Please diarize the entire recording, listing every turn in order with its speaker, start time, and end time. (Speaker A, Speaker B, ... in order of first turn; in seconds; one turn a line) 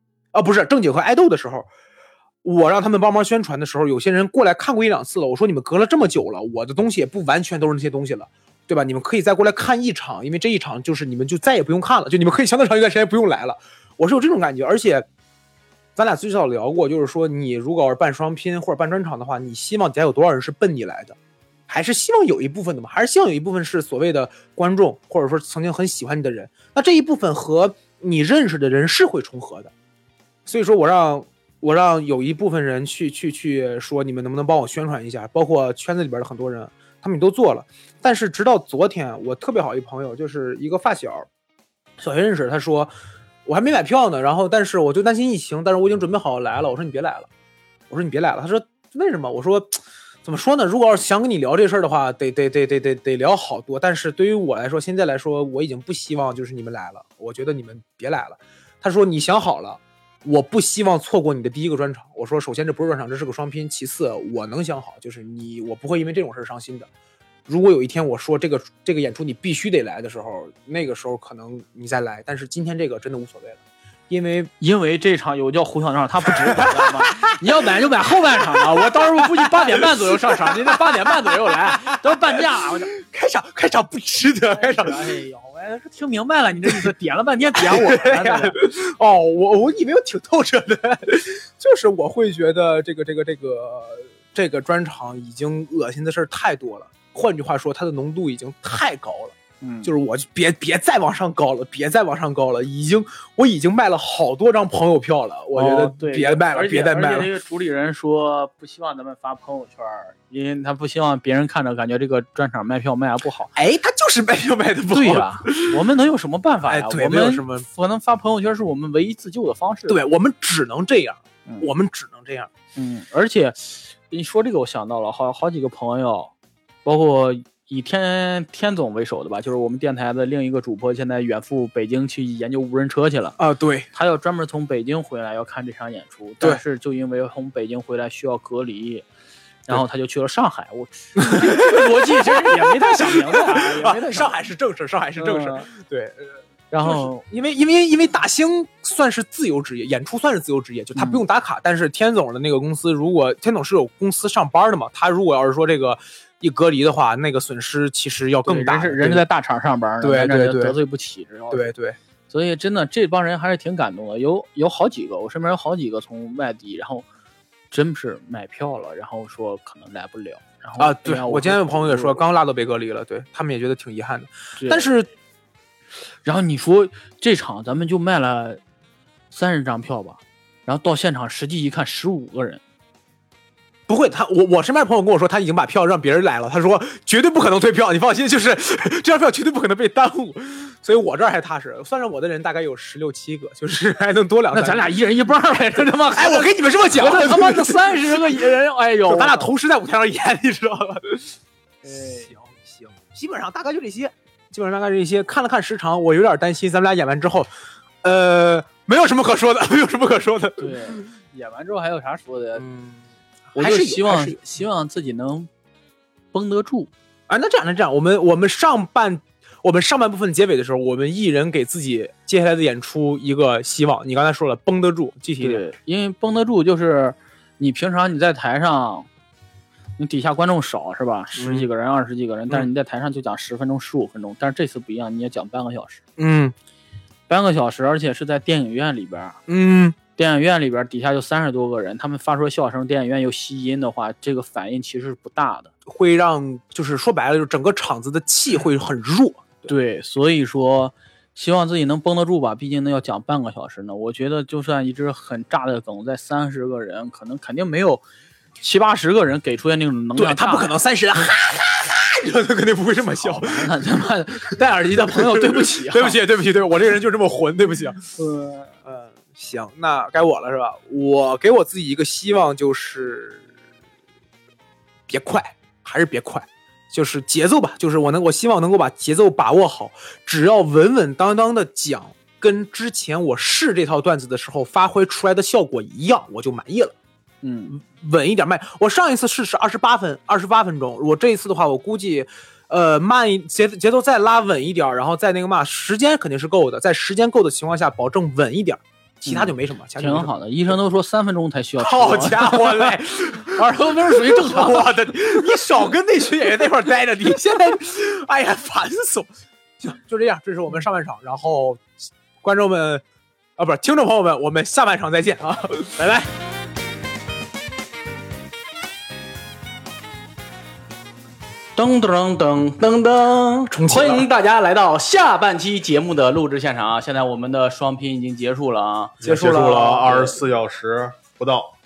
Speaker A: 0.3-1.7
Speaker A: 2.4-15.1
Speaker A: 15.9-21.2
Speaker A: 21.7-29.7
Speaker A: 30.4-41.3
Speaker A: 42.0-42.9
Speaker A: 43.5-47.3
Speaker A: 47.9-66.9
Speaker A: 67.5-74.5
Speaker B: 74.6-82.9
Speaker A: 76.4-77.6
Speaker A: 78.5-82.4
Speaker A: 82.9-85.1
Speaker B: 84.5-88.6
Speaker A: 87.5-107.3
Speaker B: 99.6-99.9
Speaker B: 105.5-113.5
Speaker A: 113.5-115.8
Speaker B: 114.9-120.0
Speaker A: 116.7-117.7
Speaker A: 119.9-122.5
Speaker B: 122.8-126.3
Speaker B: 126.8-133.4
Speaker A: 133.4-133.9
Speaker B: 133.9-139.1
Speaker B: 139.7-144.3
Speaker A: 141.2-159.2
Speaker B: 145.2-145.7
Speaker B: 146.7-147.2
Speaker B: 150.9-151.2
Speaker B: 158.4-161.7
Speaker A: 160.0-160.8
Speaker A: 161.5-162.0
Speaker B: 162.3-167.1
Speaker B: 167.7-172.2
Speaker A: 170.8-175.1
Speaker B: 174.6-174.9
Speaker B: 176.2-178.6
Speaker B: 179.3-182.6
Speaker A: 183.9-194.9
Speaker B: 194.5-199.5
Speaker A: 196.1-198.4
Speaker A: 199.1-201.4
Speaker B: 201.8-202.3
Speaker A: 201.9-207.5
Speaker A: 208.0-211.0
Speaker B: 210.6-212.6
Speaker A: 212.6-214.4
Speaker B: 213.6-215.5
Speaker B: 216.3-216.9
Speaker A: 217.3-225.6
Speaker B: 225.4-229.1
Speaker B: 230.0-236.0
Speaker A: 231.3-231.7
Speaker A: 236.2-236.5
Speaker B: 237.3-239.4
Speaker A: 239.5-240.0
Speaker B: 240.2-245.7
Speaker A: 245.9-249.7
Speaker B: 249.7-258.0
Speaker B: 258.6-260.7
Speaker A: 260.1-263.7
Speaker B: 263.2-266.2
Speaker A: 265.1-268.0
Speaker B: 268.2-268.7
Speaker A: 268.8-273.4
Speaker A: 275.1-286.9
Speaker B: 287.4-287.8
Speaker A: 287.7-300.3
Speaker B: 299.2-304.9
Speaker A: 301.8-313.0
Speaker A: 313.6-316.3
Speaker B: 321.8-329.2
Speaker A: 323.7-324.3
Speaker A: 329.2-330.1
Speaker C: 329.2-331.7
Speaker B: 330.0-330.4